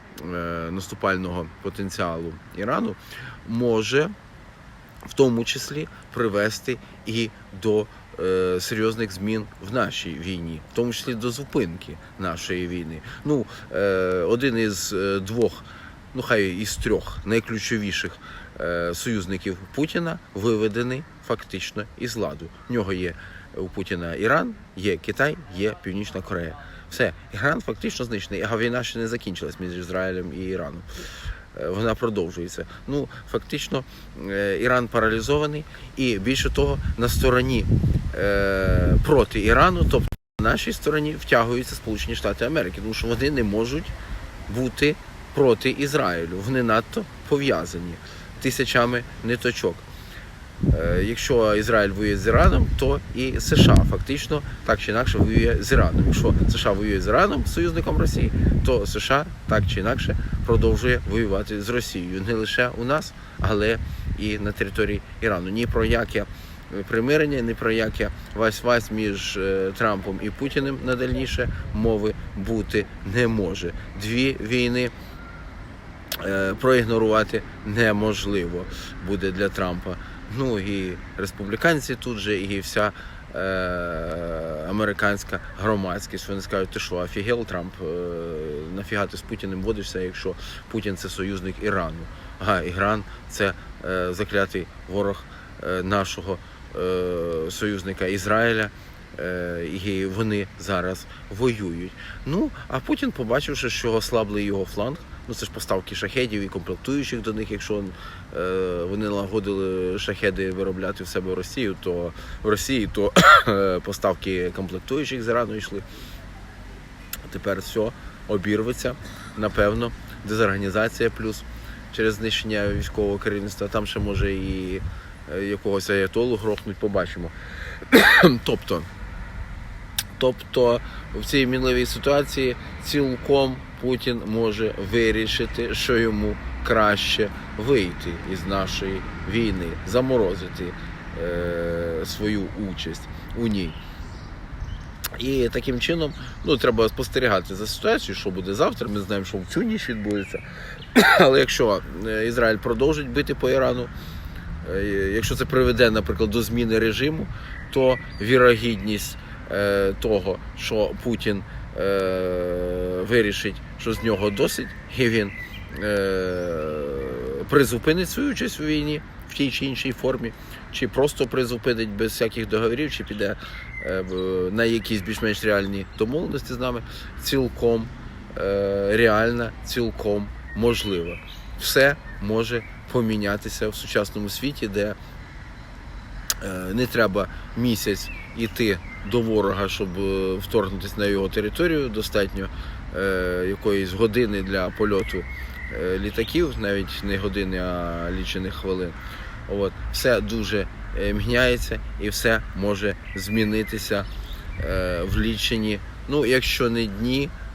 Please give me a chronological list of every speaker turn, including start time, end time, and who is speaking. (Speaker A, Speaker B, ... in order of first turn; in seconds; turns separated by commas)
Speaker A: 0.2-4.1, Speaker A: 5.1-31.0, Speaker A: 31.5-43.9, Speaker A: 44.5-49.9, Speaker A: 50.7-74.9, Speaker A: 76.2-115.8, Speaker A: 117.2-127.3, Speaker A: 127.9-128.9, Speaker A: 130.2-143.8, Speaker A: 145.2-153.9, Speaker A: 154.6-185.0, Speaker A: 186.4-199.0, Speaker A: 199.5-207.3